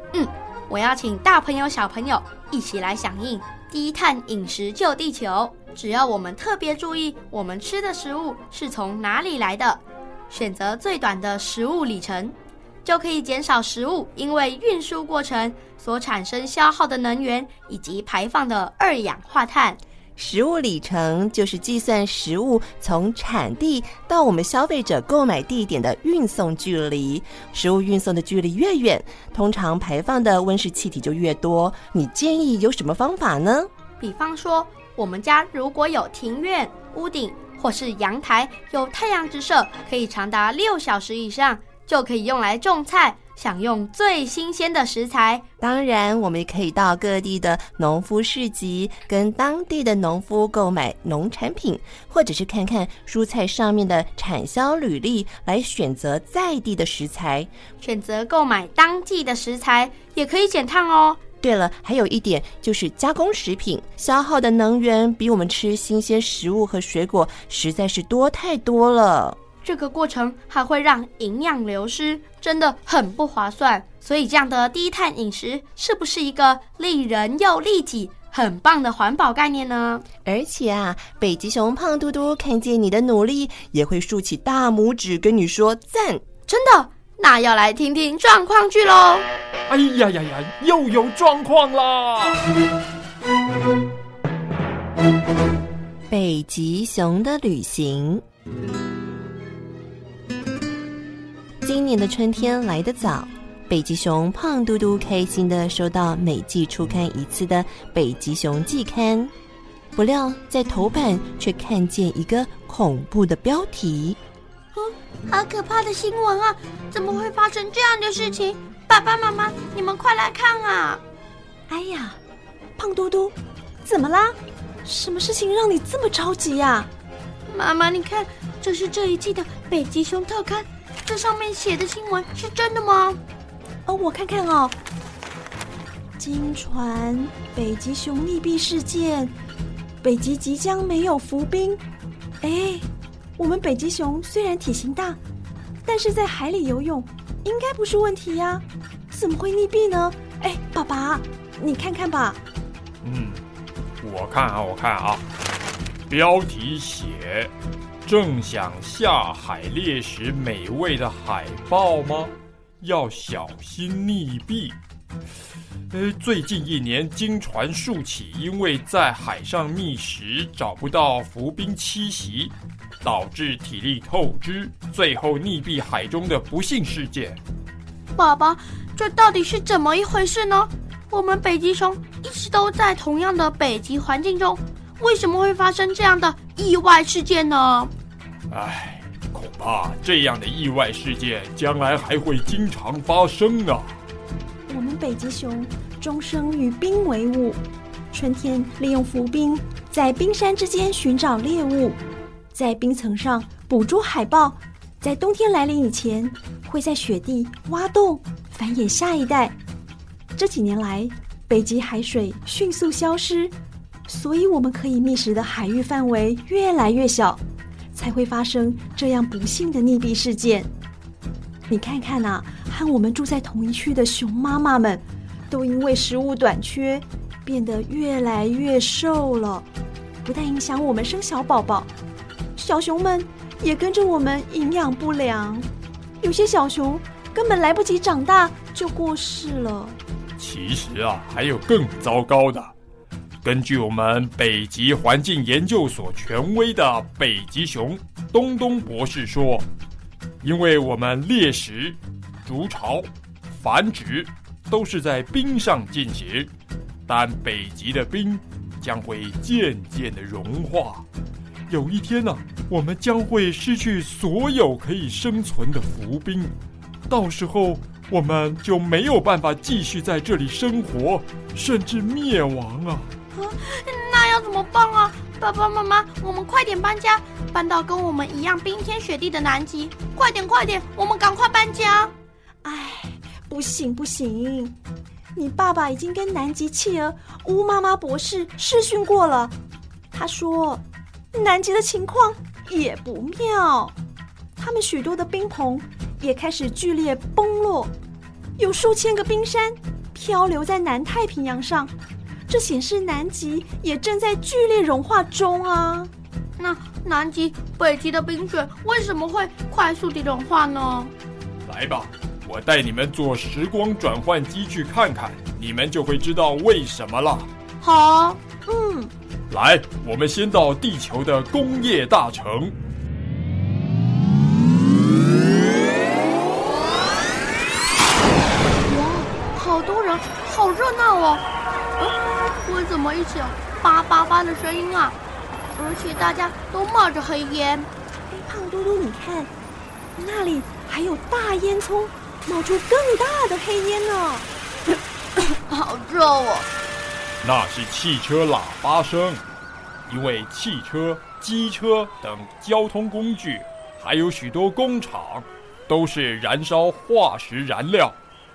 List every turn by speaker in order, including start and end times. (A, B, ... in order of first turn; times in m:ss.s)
0:00.1-0:19.8 A
0:20.2-0:33.7 B
0:34.0-0:45.4 A
0:45.6-0:57.5 B
0:57.8-1:01.2 A
1:01.4-1:09.4 B
1:09.6-1:20.0 A
1:20.2-1:26.2 B
1:26.5-1:29.3 A
1:29.7-1:32.4 C
1:36.1-1:38.2 B
1:41.6-1:49.3 B
1:50.0-1:54.2 B
1:54.8-2:01.0 A
2:01.7-2:02.2 D
2:02.8-2:06.9 D
2:07.5-2:13.2 A
2:13.9-2:14.8 D
2:16.2-2:19.3 D
2:20.0-2:21.8 D
2:22.4-2:22.9 D
2:23.4-2:25.2 D
2:25.8-2:32.4 D
2:33.0-2:33.4 C
2:34.0-2:35.2 C
2:36.1-2:37.5 C
2:38.0-2:44.8 C
2:45.9-2:57.4 C
2:58.2-3:07.9 A
3:08.5-3:14.0 C
3:14.7-3:17.6 D
3:18.1-3:22.0 D
3:22.5-3:29.6 D
3:30.4-3:33.5 D
3:34.1-3:37.4 D
3:38.0-3:40.7 D
3:41.7-3:49.7 D
3:50.2-3:51.9 D
3:52.6-3:55.7 D
3:56.2-4:00.0 D
4:00.4-4:02.7 C
4:03.4-4:09.7 C
4:10.4-4:16.5 C
4:17.1-4:21.0 C
4:21.7-4:26.6 C
4:27.1-4:33.1 C
4:33.4-4:42.1 A
4:42.6-4:44.8 D
4:45.4-4:49.6 D
4:50.1-4:54.0 D
4:54.6-4:57.9 D
4:58.6-5:01.9 D
5:02.5-5:06.1 D
5:06.6-5:11.1 A
5:11.7-5:17.5 C
5:17.8-5:18.4 A
5:18.7-5:19.1 D
5:19.5-5:22.8 C
5:28.8-5:31.4 A
5:32.0-5:35.2 A
5:35.8-5:37.9 A
5:38.3-5:39.5 D
5:40.2-5:44.5 D
5:45.5-5:46.7 A
5:47.4-5:49.4 C
5:50.1-5:58.2 C